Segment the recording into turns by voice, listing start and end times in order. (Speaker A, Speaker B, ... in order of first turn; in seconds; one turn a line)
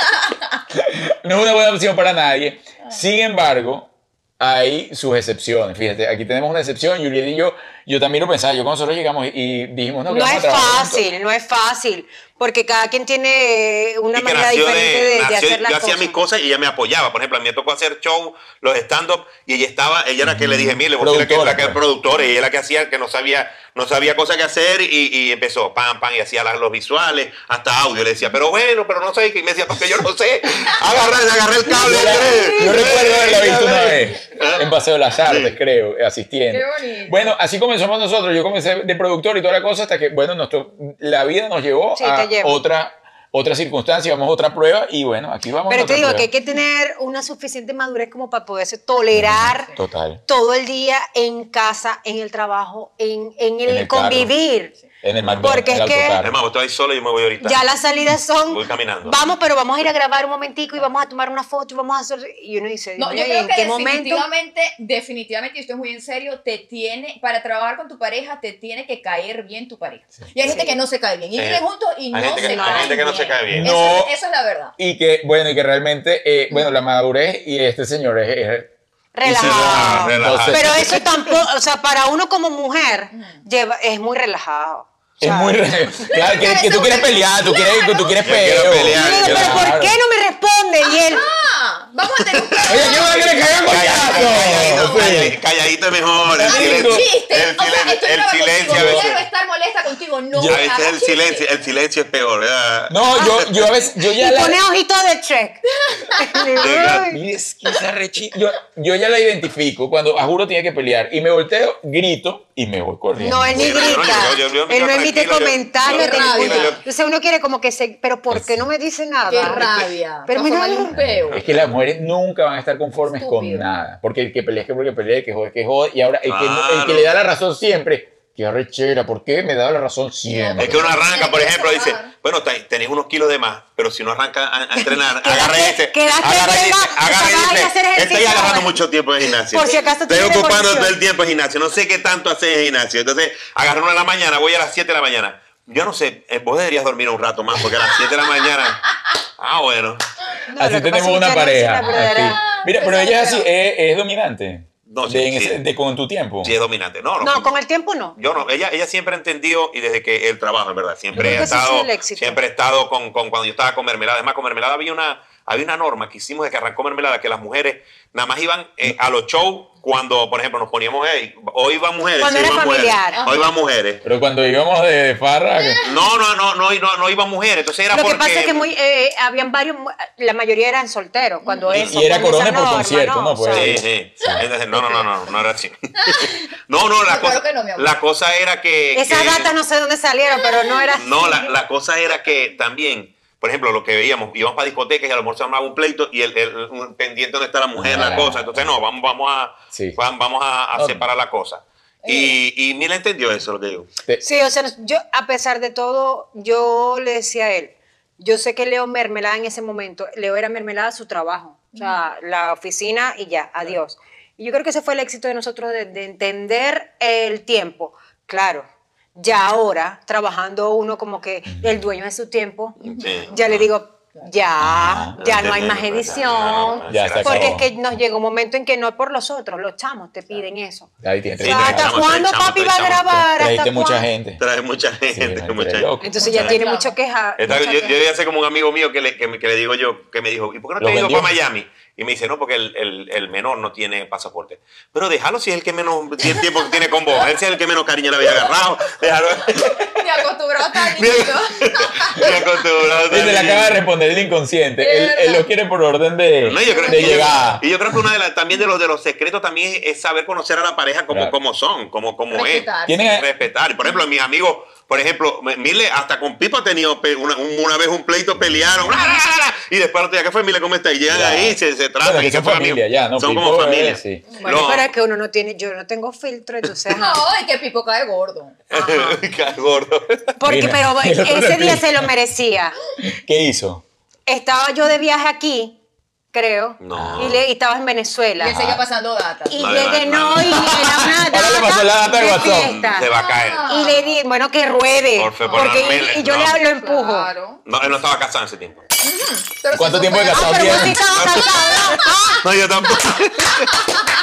Speaker A: 0.7-11.0
Speaker B: 10.1-16.2
Speaker C: 14.1-34.7
Speaker A: 20.2-21.8
Speaker B: 31.7-33.0
Speaker A: 31.8-46.3
Speaker C: 35.2-35.5
Speaker D: 36.5-37.3
Speaker B: 42.0-42.6
Speaker B: 45.7-49.7
Speaker A: 49.1-50.2
Speaker B: 50.3-54.7
Speaker A: 53.7-54.3
Speaker A: 55.0-56.3
Speaker C: 55.2-55.6
Speaker B: 55.4-56.2
Speaker C: 56.2-57.6
Speaker B: 57.4-64.2
Speaker C: 58.5-59.2
Speaker D: 63.0-74.7
Speaker B: 70.4-70.8
Speaker C: 71.4-73.7
Speaker B: 72.3-73.0
Speaker A: 73.5-74.1
Speaker A: 74.8-78.7
Speaker B: 79.1-85.6
Speaker A: 79.2-81.0
Speaker C: 79.2-81.1
Speaker D: 83.1-83.4
Speaker A: 85.2-90.0
Speaker D: 86.1-88.1
Speaker C: 88.2-89.7
Speaker B: 88.9-91.2
Speaker D: 90.8-93.4
Speaker C: 92.3-92.6
Speaker A: 92.7-95.4
Speaker C: 93.7-99.2
Speaker D: 93.9-95.4
Speaker A: 96.2-97.1
Speaker D: 96.4-101.4
Speaker A: 98.7-99.1
Speaker A: 100.3-100.6
Speaker C: 100.4-103.5
Speaker A: 102.9-104.6
Speaker B: 103.2-103.4
Speaker B: 104.0-107.2
Speaker D: 105.8-106.6
Speaker C: 106.6-107.1
Speaker A: 107.0-113.9
Speaker B: 113.2-121.0
Speaker C: 113.5-116.8
Speaker D: 115.8-116.8
Speaker A: 118.3-118.7
Speaker D: 119.3-121.4
Speaker A: 120.9-130.9
Speaker C: 121.3-121.7
Speaker D: 123.1-123.7
Speaker C: 126.2-127.1
Speaker D: 130.3-132.1
Speaker C: 130.6-150.0
Speaker B: 134.7-140.9
Speaker B: 150.5-152.4
Speaker A: 150.6-156.5
Speaker D: 151.9-153.5
Speaker C: 154.8-155.6
Speaker C: 156.4-157.5
Speaker B: 157.2-158.2
Speaker C: 158.2-174.0
Speaker B: 161.1-162.4
Speaker A: 161.2-161.5
Speaker B: 172.2-173.3
Speaker D: 173.1-173.5
Speaker A: 174.0-175.8
Speaker D: 175.6-176.1
Speaker C: 175.8-178.7
Speaker B: 177.9-183.8
Speaker D: 181.4-181.7
Speaker A: 181.7-184.4
Speaker C: 183.5-189.5
Speaker B: 184.7-185.0
Speaker D: 186.0-186.4
Speaker D: 187.1-187.9
Speaker B: 188.9-191.5
Speaker D: 190.4-190.9
Speaker C: 190.9-203.9
Speaker A: 197.8-198.7
Speaker A: 199.7-200.0
Speaker A: 200.7-201.1
Speaker D: 202.0-202.4
Speaker B: 204.2-234.1
Speaker D: 211.7-212.0
Speaker C: 222.8-223.7
Speaker D: 222.8-223.3
Speaker A: 224.6-225.2
Speaker C: 225.2-227.6
Speaker A: 226.9-227.7
Speaker A: 231.0-232.1
Speaker C: 231.4-233.2
Speaker A: 233.1-234.4
Speaker C: 234.4-236.6
Speaker A: 235.1-236.4
Speaker B: 236.0-237.9
Speaker D: 236.2-236.9
Speaker C: 237.4-250.0
Speaker A: 240.8-241.3
Speaker D: 249.6-252.6
Speaker C: 250.8-253.8
Speaker A: 253.1-258.0
Speaker D: 254.8-255.4
Speaker C: 256.4-274.9
Speaker D: 256.6-257.5
Speaker D: 262.3-263.0
Speaker A: 262.9-263.3
Speaker A: 268.4-268.9
Speaker A: 271.1-274.2
Speaker D: 274.3-274.7
Speaker B: 274.4-277.2
Speaker D: 276.9-278.6
Speaker C: 278.7-280.3
Speaker B: 278.7-279.2
Speaker B: 280.4-282.7
Speaker A: 280.4-282.1
Speaker A: 283.0-283.8
Speaker B: 284.3-285.8
Speaker B: 286.3-288.6
Speaker C: 286.8-287.4
Speaker A: 286.9-287.4
Speaker D: 288.4-289.7
Speaker A: 288.5-288.8
Speaker B: 289.5-293.1
Speaker C: 289.6-291.1
Speaker A: 290.8-292.8
Speaker C: 292.6-293.7
Speaker D: 293.0-294.2
Speaker B: 293.7-297.3
Speaker C: 295.1-296.6
Speaker D: 295.4-297.6
Speaker C: 297.6-298.8
Speaker D: 299.0-302.3
Speaker A: 299.7-301.1
Speaker B: 300.3-302.4
Speaker C: 301.1-303.8